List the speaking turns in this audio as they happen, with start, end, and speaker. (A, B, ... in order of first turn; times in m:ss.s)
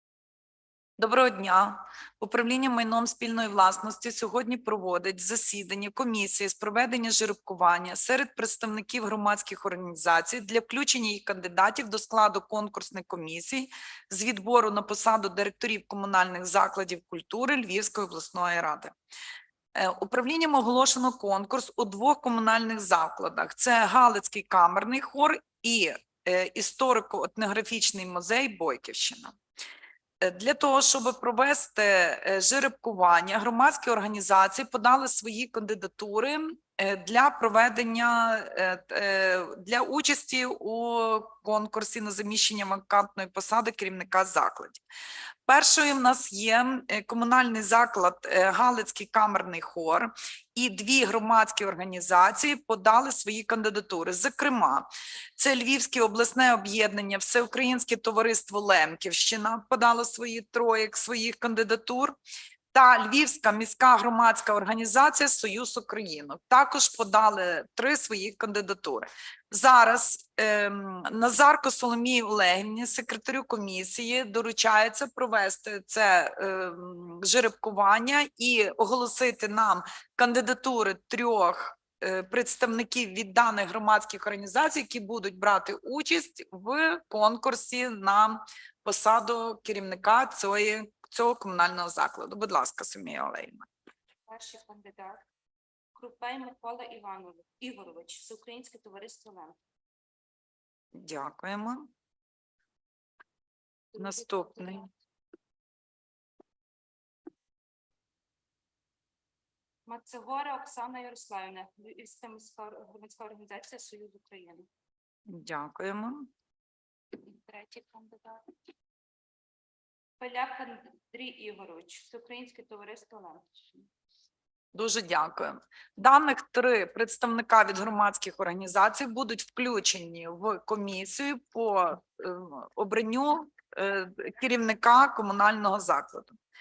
0:01.0-0:18.9 A
0:19.7-0:29.4 A
0:30.2-0:44.8 A
0:45.5-1:02.2 A
1:02.7-1:33.7 A
1:34.3-1:35.2 B
1:35.9-1:39.6 B
1:40.9-1:41.9 A
1:43.9-1:44.9 B
1:44.0-1:44.9 A
1:49.9-1:54.7 B
1:55.3-1:56.3 A
1:57.2-1:58.5 B
2:00.2-2:03.9 B
2:04.7-2:16.4 A